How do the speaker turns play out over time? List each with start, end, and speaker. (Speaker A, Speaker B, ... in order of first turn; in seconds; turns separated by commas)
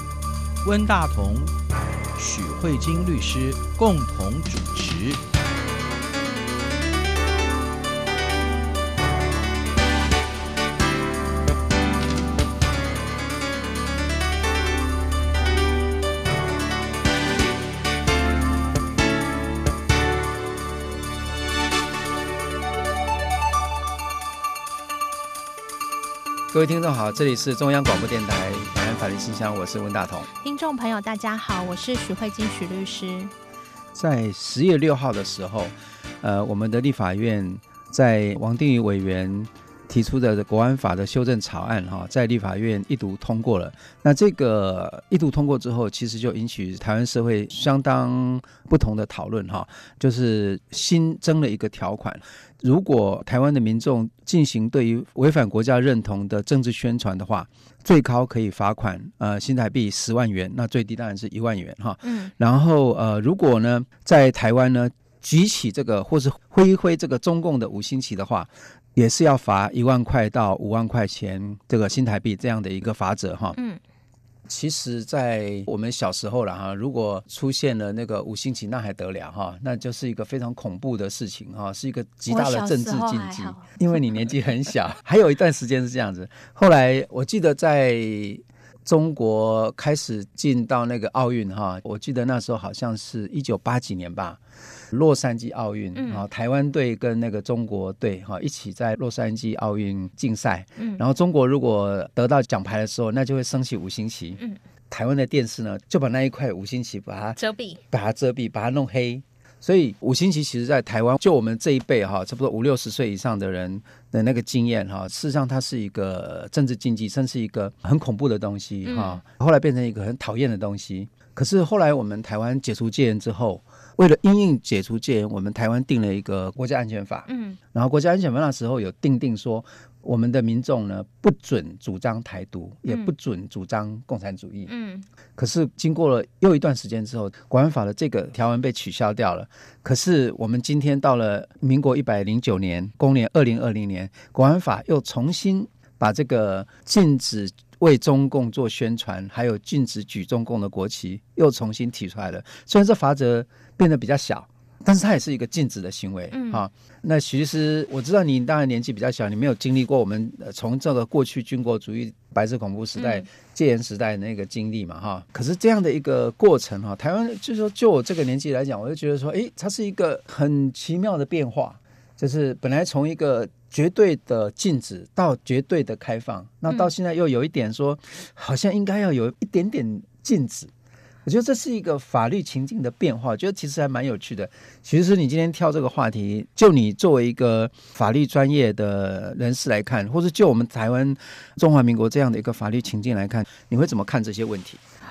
Speaker A: 0.6-1.5, Speaker A: 2.1-5.2, Speaker B: 26.5-30.3, Speaker C: 30.4-33.3, Speaker B: 33.9-73.6, Speaker C: 62.0-62.3, Speaker B: 74.5-94.4, Speaker C: 82.3-83.7, Speaker B: 94.9-104.4, Speaker C: 95.9-96.2, Speaker C: 100.8-101.0, Speaker B: 104.9-107.4, Speaker C: 107.4-107.8, Speaker B: 107.9-134.7, Speaker C: 118.8-119.2, Speaker C: 127.3-127.6, Speaker C: 134.7-135.1, Speaker B: 135.4-180.7, Speaker C: 156.3-156.6, Speaker C: 163.0-163.2, Speaker B: 181.2-194.8